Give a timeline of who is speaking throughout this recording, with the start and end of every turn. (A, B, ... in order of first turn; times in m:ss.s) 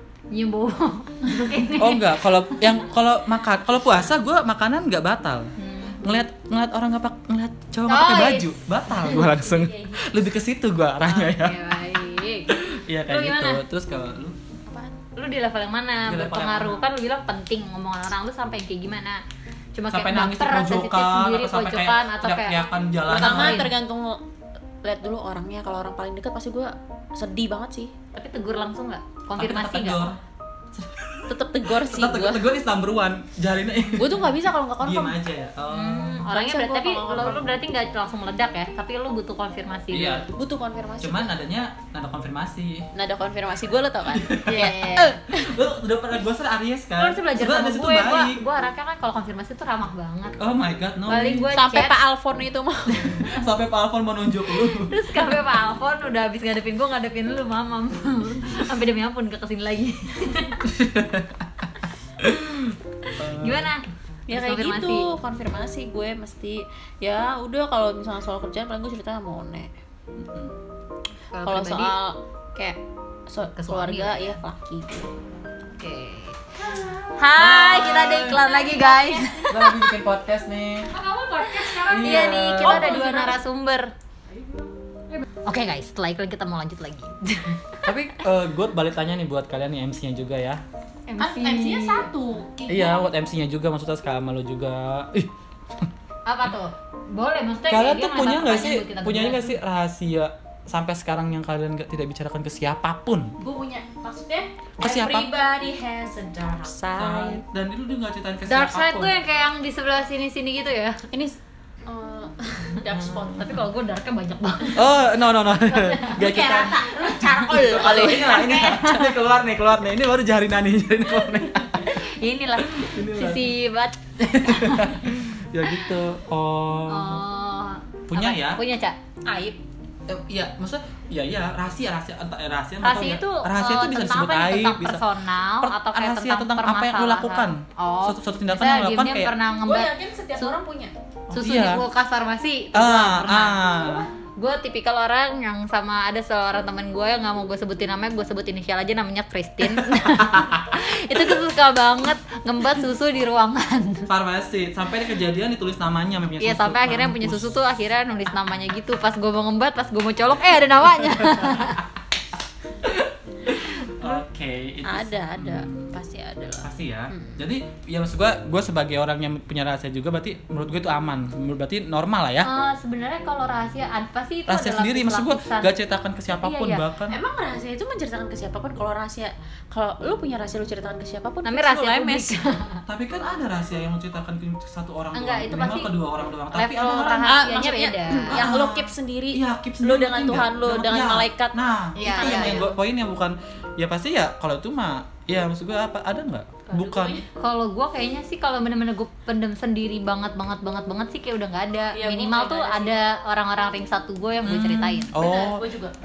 0:00.3-0:02.8 A
0:01.4-0:11.6 B
0:05.6-0:06.1 A
0:07.9-0:09.3 A
0:09.3-0:10.2 C
0:11.1-0:12.6 A
0:12.5-0:14.4 B
0:13.1-0:13.6 A
0:14.7-0:15.0 C
0:15.2-0:19.2 A
0:16.0-0:16.9 B
0:19.8-0:23.7 A
0:19.9-0:23.7 B
0:23.1-0:24.2 C
0:24.8-0:27.9 C
0:28.1-0:30.0 A
0:29.4-0:30.2 B
0:30.7-0:36.3 B
0:31.3-0:32.5 C
0:34.0-0:35.2 C
0:35.7-0:40.2 A
0:36.3-0:37.5 C
0:39.9-0:40.3 B
0:40.3-0:41.3 C
0:41.0-0:42.9 B
0:42.9-0:45.6 C
0:44.1-0:48.4 B
0:44.5-0:45.2 A
0:47.0-0:50.4 A
0:50.4-0:51.5 B
0:51.1-0:52.0 A
0:51.5-0:53.4 C
0:53.2-0:55.0 B
0:54.8-1:00.7 A
1:00.6-1:01.7 B
1:02.2-1:03.7 B
1:03.1-1:05.1 A
1:04.3-1:09.7 C
1:10.2-1:10.6 B
1:11.3-1:12.0 A
1:11.4-1:15.1 C
1:13.6-1:14.4 A
1:15.8-1:16.4 A
1:16.6-1:17.2 C
1:17.2-1:19.8 A
1:17.4-1:18.6 B
1:17.9-1:19.5 C
1:19.4-1:20.9 B
1:20.9-1:23.9 A
1:21.5-1:23.4 C
1:21.9-1:23.0 B
1:24.3-1:24.7 C
1:25.2-1:27.9 A
1:27.8-1:30.6 B
1:31.1-1:32.1 A
1:31.2-1:33.1 C
1:32.7-1:35.9 B
1:36.3-1:39.6 A
1:37.7-1:43.4 B
1:43.4-1:47.4 C
1:44.8-1:45.3 B
1:46.9-1:49.1 B
1:48.5-1:51.0 A
1:51.1-1:53.6 C
1:52.8-1:55.0 A
1:54.8-1:56.8 B
1:55.6-1:59.1 A
1:56.2-1:58.9 C
1:57.4-2:02.0 B
2:01.8-2:05.1 A
2:02.6-2:03.6 B
2:04.2-2:07.2 B
2:06.9-2:09.0 A
2:08.1-2:08.6 B
2:09.2-2:09.6 C
2:10.1-2:15.0 B
2:12.8-2:20.6 A
2:15.6-2:19.3 B
2:19.6-2:20.9 C
2:21.3-2:21.8 B
2:21.3-2:23.7 A
2:22.7-2:24.1 B
2:23.6-2:24.1 C
2:24.4-2:34.1 A
2:29.7-2:30.6 B
2:34.1-2:37.5 B
2:36.4-2:41.8 A
2:41.0-2:41.8 B
2:42.8-2:45.8 B
2:44.8-2:47.4 C
2:46.6-2:52.5 B
2:52.4-2:55.7 A
2:54.5-2:57.2 B
2:56.4-2:56.8 A
2:57.1-3:02.4 C
3:01.4-3:02.8 A
3:02.9-3:07.5 B
3:05.1-3:05.9 A
3:06.5-3:08.5 A
3:07.2-3:12.8 C
3:08.3-3:17.3 B
3:12.0-3:12.7 A
3:16.7-3:17.3 C
3:17.4-3:25.1 A
3:21.9-3:23.0 C
3:24.4-3:25.6 B
3:25.1-3:25.9 C